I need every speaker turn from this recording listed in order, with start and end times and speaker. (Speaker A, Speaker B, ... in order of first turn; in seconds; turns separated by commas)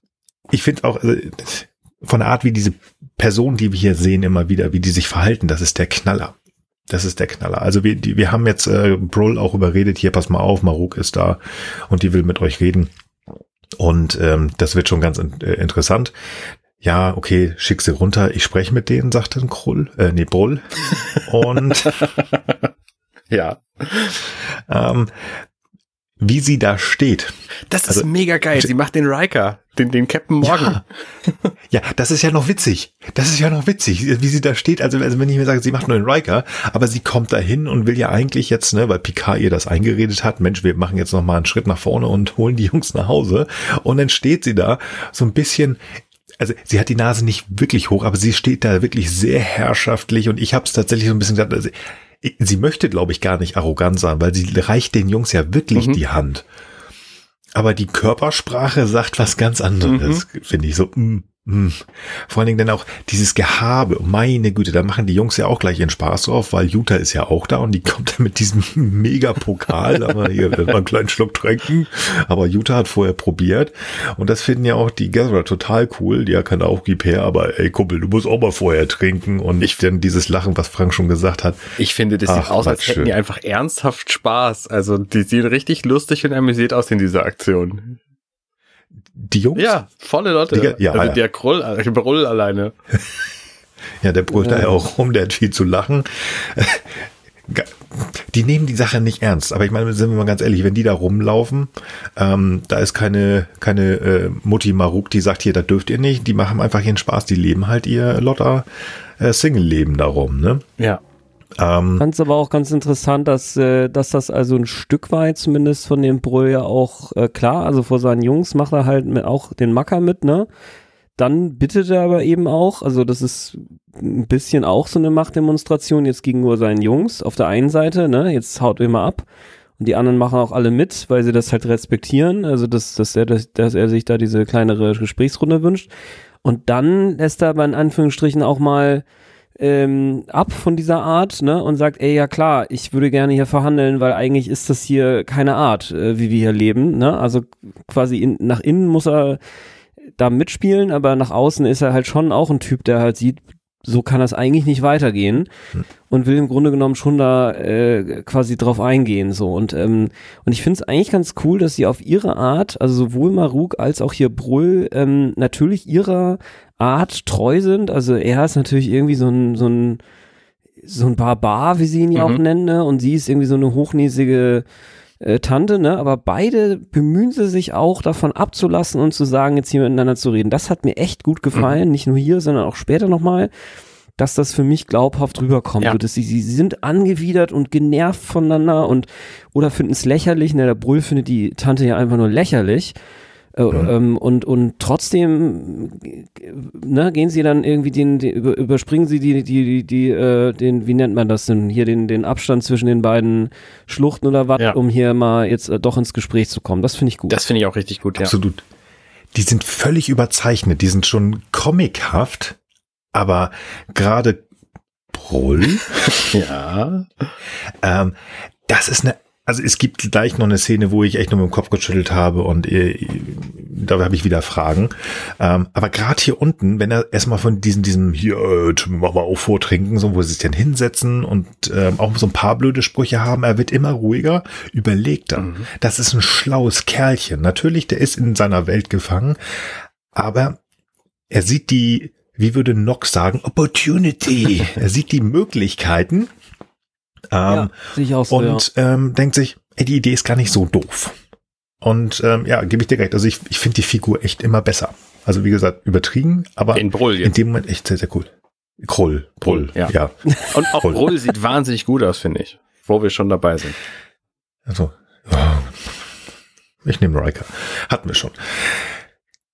Speaker A: 0.5-6.4, Speaker A: 6.9-12.9, Speaker A: 13.8-16.1, Speaker A: 16.8-22.0, Speaker B: 21.9-22.5, Speaker B: 23.3-24.2, Speaker A: 24.6-25.3, Speaker A: 26.2-27.3, Speaker B: 27.7-31.4, Speaker A: 30.4-30.8, Speaker A: 31.7-56.5, Speaker B: 55.8-56.0, Speaker A: 57.5-81.6, Speaker B: 59.9-60.2, Speaker B: 81.8-88.0, Speaker A: 82.3-83.1, Speaker A: 89.2-89.7, Speaker B: 89.6-92.7, Speaker A: 90.5-91.2, Speaker A: 94.0-108.7, Speaker A: 109.2-110.6, Speaker A: 111.6-112.1, Speaker C: 112.0-120.5, Speaker C: 121.2-129.3, Speaker C: 129.8-135.9, Speaker C: 136.4-139.0, Speaker C: 139.6-149.4, Speaker C: 150.2-155.5, Speaker C: 156.1-170.0, Speaker C: 170.8-174.6, Speaker B: 172.2-172.4, Speaker C: 175.2-183.5, Speaker C: 184.2-192.9, Speaker C: 193.6-207.4, Speaker B: 207.3-208.3, Speaker A: 208.2-208.6, Speaker A: 209.3-212.6, Speaker A: 213.1-214.4, Speaker A: 215.1-216.3, Speaker B: 215.7-217.3, Speaker A: 217.8-218.2, Speaker A: 218.7-240.6, Speaker B: 235.4-235.7, Speaker A: 241.3-246.3, Speaker A: 247.3-247.8, Speaker C: 247.5-248.7, Speaker A: 248.3-251.2, Speaker A: 251.8-260.1, Speaker B: 256.7-257.3, Speaker B: 259.5-259.9, Speaker B: 260.5-263.8, Speaker A: 260.7-261.1, Speaker A: 264.7-265.9, Speaker A: 266.9-268.9